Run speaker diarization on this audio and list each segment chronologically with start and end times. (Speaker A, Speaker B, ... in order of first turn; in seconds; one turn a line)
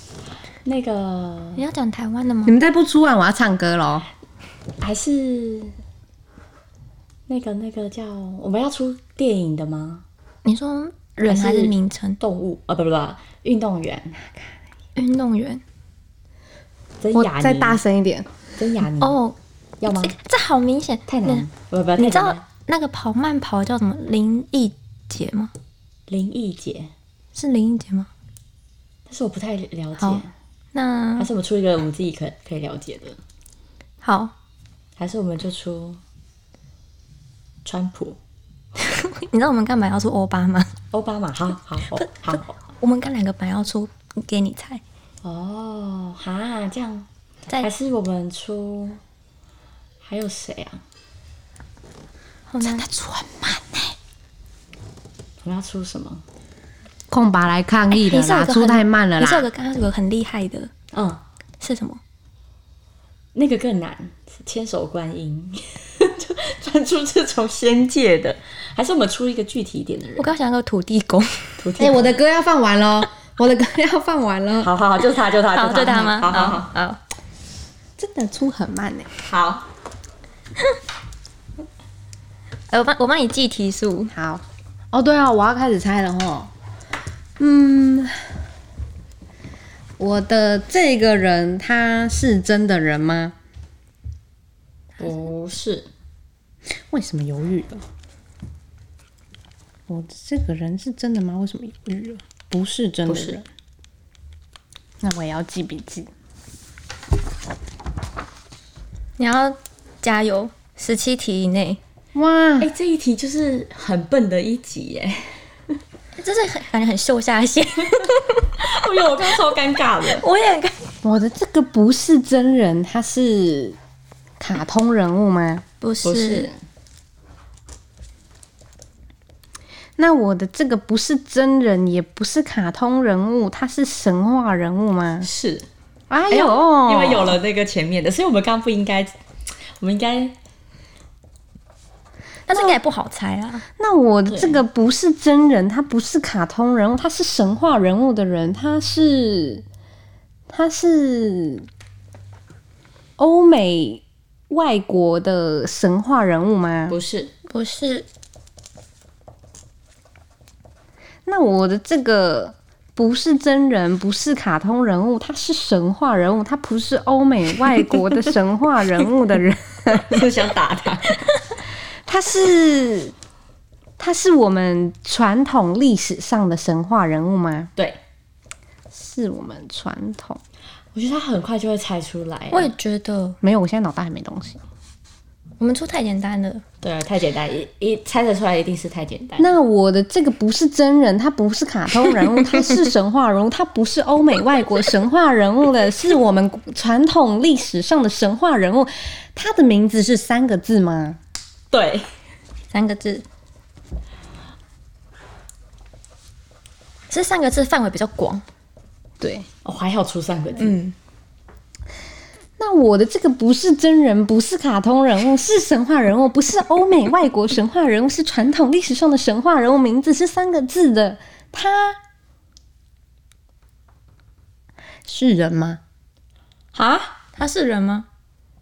Speaker A: 0.7-1.6
Speaker B: 1.6-2.6
Speaker C: 2.5-4.1
Speaker A: 4.8-5.8
Speaker A: 7.3-10.1
Speaker B: 10.4-12.2
Speaker A: 11.3-14.2
Speaker B: 15.0-15.6
Speaker A: 17.0-17.8
Speaker C: 17.1-18.3
Speaker A: 18.6-19.2
Speaker B: 19.0-19.4
Speaker A: 19.8-20.1
Speaker B: 19.9-21.5
Speaker A: 21.1-22.4
Speaker B: 22.0-25.5
Speaker A: 26.1-26.9
Speaker B: 27.4-28.1
Speaker A: 29.1-30.3
Speaker B: 30.7-31.3
Speaker A: 31.2-33.2
Speaker B: 34.0-34.3
Speaker A: 35.0-36.0
Speaker A: 37.6-38.2
Speaker B: 38.8-40.7
Speaker A: 40.9-42.6
Speaker B: 42.8-44.8
Speaker A: 45.2-47.1
Speaker A: 47.6-49.0
Speaker A: 50.0-50.8
Speaker B: 52.5-52.9
Speaker C: 52.6-54.0
Speaker A: 55.4-56.2
Speaker C: 57.1-59.5
Speaker B: 57.9-60.7
Speaker A: 60.9-61.2
Speaker B: 61.6-62.0
Speaker A: 63.4-70.3
Speaker B: 70.2-71.6
Speaker A: 71.6-72.2
Speaker C: 71.8-74.7
Speaker A: 74.6-76.7
Speaker B: 75.5-77.0
Speaker C: 78.0-79.1
Speaker A: 79.2-79.7
Speaker B: 82.7-84.1
Speaker C: 84.1-86.5
Speaker C: 87.4-88.2
Speaker C: 90.0-93.4
Speaker A: 95.0-95.9
Speaker C: 96.9-97.8
Speaker C: 99.9-103.4
Speaker A: 103.1-103.4
Speaker C: 105.0-106.1
Speaker B: 109.2-111.8
Speaker C: 112.2-112.7
Speaker A: 112.6-115.3
Speaker B: 116.2-118.7
Speaker A: 118.6-120.2
Speaker B: 120.1-120.8
Speaker C: 121.0-123.8
Speaker C: 124.4-125.6
Speaker B: 125.8-126.5
Speaker A: 126.0-126.6
Speaker C: 130.0-135.3
Speaker A: 135.2-135.7
Speaker C: 136.1-137.4
Speaker A: 136.3-139.2
Speaker A: 139.8-140.4
Speaker B: 142.5-143.6
Speaker C: 142.5-142.8
Speaker C: 143.8-149.6
Speaker A: 144.3-144.6
Speaker C: 150.5-151.7
Speaker C: 153.2-157.0
Speaker A: 156.9-157.3
Speaker B: 157.5-158.1
Speaker C: 161.3-170.3
Speaker A: 170.1-171.2
Speaker C: 172.1-173.1
Speaker C: 174.0-177.7
Speaker C: 178.9-180.4
Speaker A: 180.9-182.7
Speaker B: 182.5-183.4
Speaker C: 183.4-184.6
Speaker B: 185.6-186.6
Speaker A: 186.8-189.6
Speaker C: 189.4-201.2
Speaker A: 201.7-202.1
Speaker B: 202.7-203.2
Speaker B: 207.1-208.4
Speaker C: 209.2-209.5
Speaker A: 209.6-210.8
Speaker B: 210.6-210.9
Speaker C: 212.6-222.0
Speaker C: 225.1-225.8
Speaker A: 226.7-227.2
Speaker B: 227.4-228.1